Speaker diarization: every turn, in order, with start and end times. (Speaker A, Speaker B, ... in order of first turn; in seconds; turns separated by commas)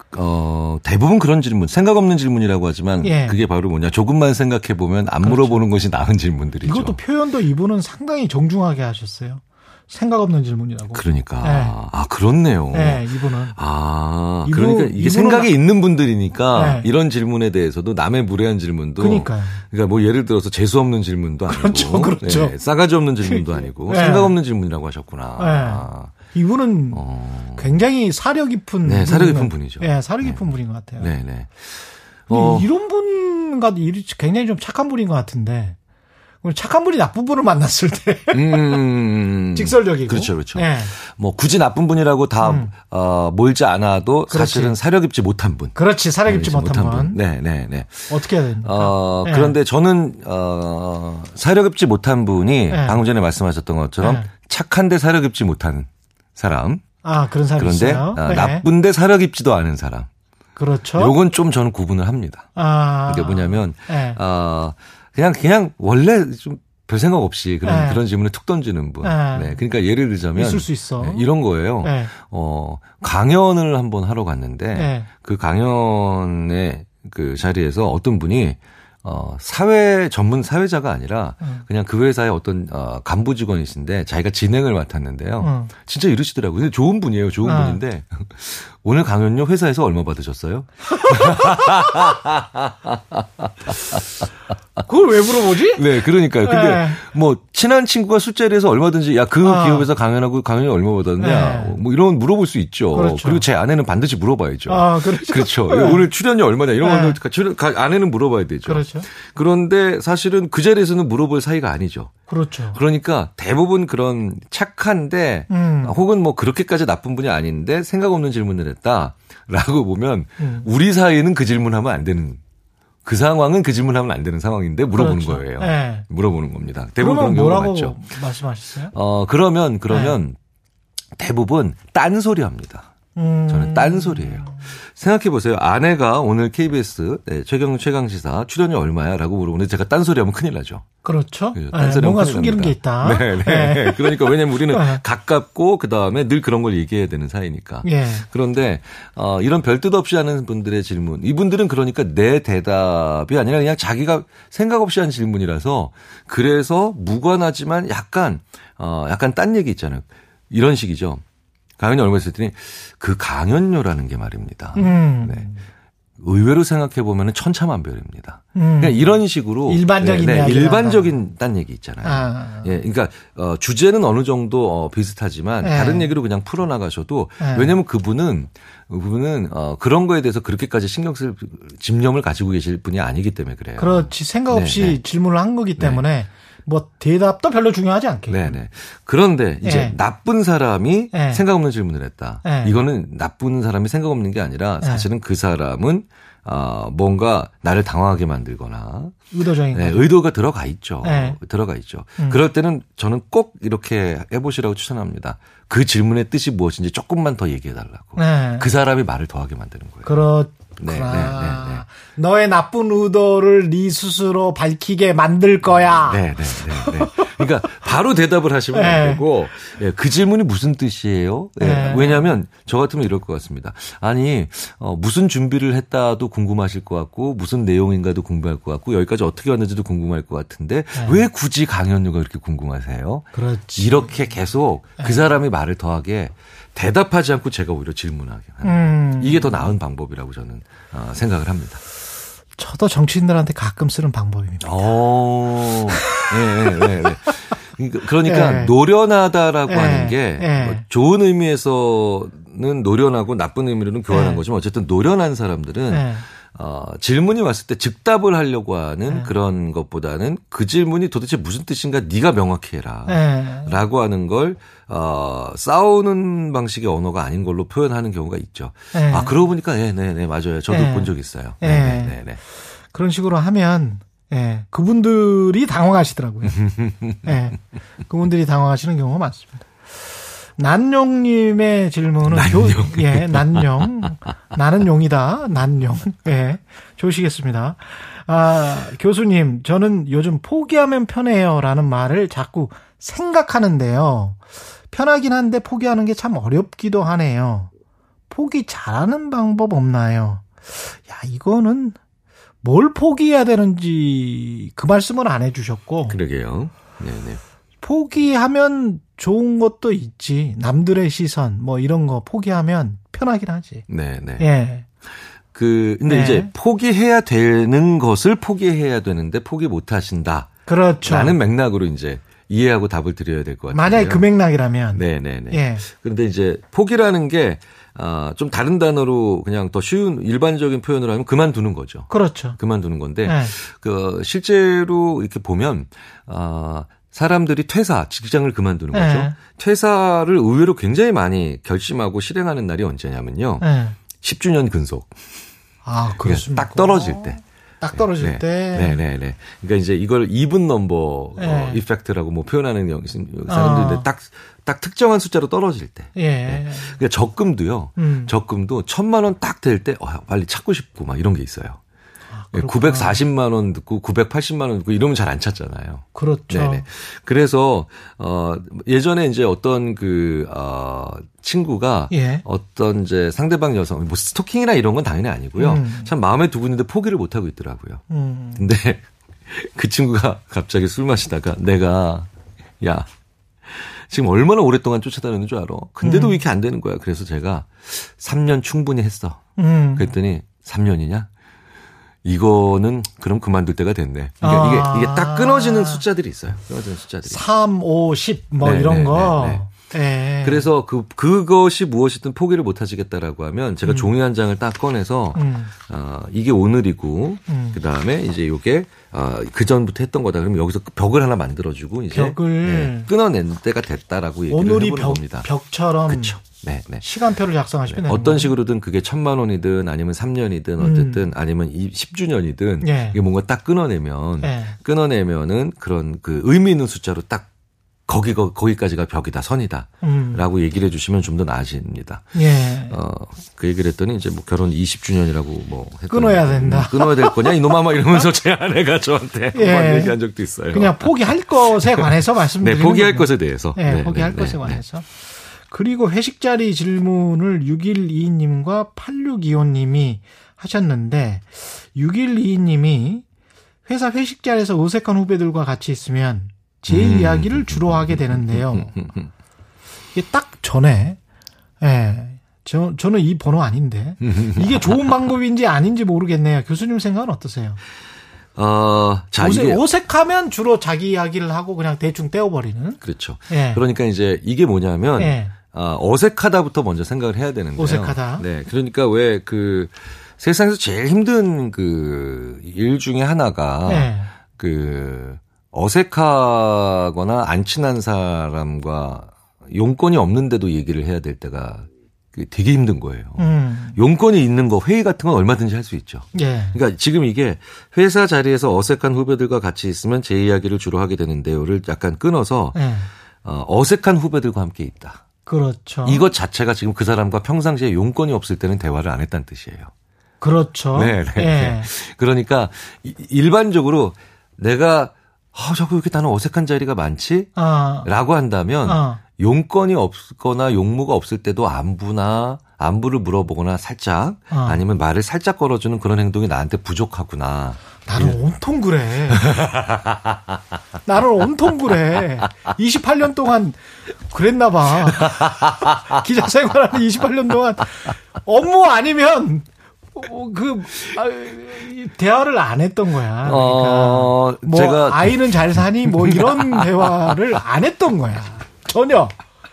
Speaker A: 0.1-7.0, Speaker B: 3.0-3.4, Speaker B: 5.2-5.6, Speaker B: 6.6-11.8, Speaker A: 10.9-26.1, Speaker B: 12.7-13.6, Speaker B: 14.4-15.5, Speaker B: 16.5-16.9, Speaker B: 19.0-19.6, Speaker B: 21.5-22.5, Speaker B: 23.2-24.3, Speaker B: 25.4-27.0, Speaker A: 26.9-27.8, Speaker B: 27.6-31.1, Speaker A: 28.8-32.7, Speaker B: 32.3-35.8, Speaker B: 36.4-38.8, Speaker A: 38.3-56.8, Speaker B: 39.5-40.9, Speaker B: 42.4-42.7, Speaker B: 44.3-44.8, Speaker B: 45.7-47.2, Speaker B: 48.1-49.6, Speaker B: 52.7-53.0, Speaker B: 54.0-54.3, Speaker B: 57.0-58.6, Speaker A: 57.6-60.1, Speaker B: 60.5-61.1, Speaker A: 61.0-62.5, Speaker B: 62.5-64.2, Speaker A: 63.1-94.2, Speaker B: 67.6-68.0, Speaker B: 69.0-69.6, Speaker B: 70.3-71.2, Speaker B: 71.8-72.1, Speaker B: 74.7-75.1, Speaker B: 85.4-85.7, Speaker B: 87.4-87.8, Speaker B: 90.9-91.9, Speaker B: 94.8-97.0, Speaker A: 95.5-112.1, Speaker B: 99.4-99.9, Speaker B: 101.2-101.8, Speaker B: 102.9-103.4, Speaker B: 104.7-106.0, Speaker B: 106.8-107.2, Speaker B: 108.7-109.1, Speaker B: 112.3-112.8, Speaker A: 112.7-122.4, Speaker B: 115.5-116.0, Speaker B: 120.4-120.7, Speaker A: 123.0-128.0, Speaker B: 125.0-126.0, Speaker B: 127.0-128.9, Speaker A: 128.9-130.4, Speaker B: 129.9-130.2, Speaker A: 131.2-132.9, Speaker B: 133.2-134.7, Speaker A: 133.5-140.8, Speaker B: 141.0-145.0, Speaker A: 141.5-161.2, Speaker B: 147.8-148.2, Speaker A: 161.8-165.5, Speaker B: 164.7-165.6, Speaker A: 166.2-185.0, Speaker B: 168.5-171.1, Speaker B: 172.0-172.7, Speaker B: 175.6-176.1, Speaker B: 177.4-177.7, Speaker B: 183.8-188.6, Speaker A: 185.8-186.0, Speaker A: 188.3-199.2, Speaker B: 189.6-189.9, Speaker B: 191.1-191.4, Speaker B: 192.4-192.8, Speaker B: 194.8-195.1, Speaker B: 199.3-200.1, Speaker A: 199.7-210.1, Speaker B: 201.0-201.4, Speaker B: 208.2-208.7, Speaker B: 210.0-217.4, Speaker A: 210.8-211.8, Speaker A: 216.0-241.8, Speaker B: 218.7-219.2, Speaker B: 221.6-222.3, Speaker B: 230.9-231.2, Speaker B: 233.3-234.1, Speaker B: 238.6-239.7, Speaker B: 242.6-244.9, Speaker A: 244.6-272.4, Speaker B: 245.9-246.9, Speaker B: 248.2-248.7, Speaker B: 249.7-250.8, Speaker B: 254.1-254.4, Speaker B: 255.9-256.2, Speaker B: 259.1-259.3, Speaker B: 263.1-263.7, Speaker B: 268.9-269.4, Speaker B: 270.7-272.2, Speaker B: 272.9-276.7, Speaker A: 276.7-277.2, Speaker B: 277.2-297.7, Speaker A: 282.2-284.1, Speaker B: 298.3-302.0, Speaker B: 302.6-306.2, Speaker A: 306.1-307.4, Speaker B: 307.8-313.8, Speaker A: 313.9-314.5, Speaker B: 314.4-314.9, Speaker A: 315.5-324.2, Speaker B: 316.1-316.5, Speaker B: 320.7-321.4, Speaker B: 323.7-325.8, Speaker A: 324.9-345.1, Speaker B: 332.1-332.6, Speaker B: 333.2-333.5, Speaker B: 338.9-339.4, Speaker B: 343.6-344.0, Speaker B: 345.8-349.0, Speaker A: 346.2-347.4, Speaker A: 347.9-361.8, Speaker B: 351.4-351.8, Speaker B: 353.5-354.1, Speaker B: 356.1-357.0, Speaker B: 358.0-358.3, Speaker B: 362.3-363.2, Speaker A: 362.5-378.0, Speaker B: 366.1-366.8, Speaker B: 372.1-372.4, Speaker B: 375.6-376.1, Speaker B: 378.1-378.6, Speaker A: 378.6-382.3, Speaker A: 382.8-383.1, Speaker A: 383.6-389.4, Speaker B: 386.0-386.4, Speaker B: 389.6-390.1, Speaker A: 389.9-391.3, Speaker A: 392.2-397.4, Speaker B: 394.4-396.0, Speaker B: 397.3-400.7, Speaker A: 398.6-399.7, Speaker A: 400.4-415.5, Speaker B: 405.3-405.7, Speaker B: 407.5-407.8, Speaker B: 412.1-413.1, Speaker B: 414.5-416.4, Speaker A: 416.1-417.0, Speaker B: 417.0-418.5, Speaker A: 417.9-427.5, Speaker B: 420.8-421.2, Speaker B: 422.8-423.2, Speaker B: 424.4-424.8, Speaker A: 428.1-444.8, Speaker B: 430.0-430.4, Speaker B: 432.3-432.9, Speaker B: 436.1-437.6, Speaker B: 439.5-440.2, Speaker B: 440.7-453.2, Speaker B: 453.9-458.9, Speaker A: 456.9-459.3, Speaker B: 460.1-461.2, Speaker B: 461.8-467.8, Speaker A: 464.2-465.0, Speaker A: 468.5-469.8, Speaker B: 469.4-473.8, Speaker A: 473.0-502.8, Speaker B: 475.2-475.5, Speaker B: 477.8-478.4, Speaker B: 483.8-484.3, Speaker B: 493.4-494.0, Speaker B: 496.3-496.8, Speaker B: 502.7-503.1, Speaker A: 503.4-505.2, Speaker B: 505.4-506.2, Speaker A: 506.0-509.9, Speaker B: 510.4-511.9, Speaker A: 510.9-517.5, Speaker B: 517.5-518.1, Speaker A: 518.0-528.4, Speaker B: 518.8-519.2, Speaker B: 524.5-524.8, Speaker B: 528.0-529.6, Speaker A: 529.3-530.4, Speaker B: 531.0-549.4, Speaker A: 535.2-535.9, Speaker A: 543.4-547.3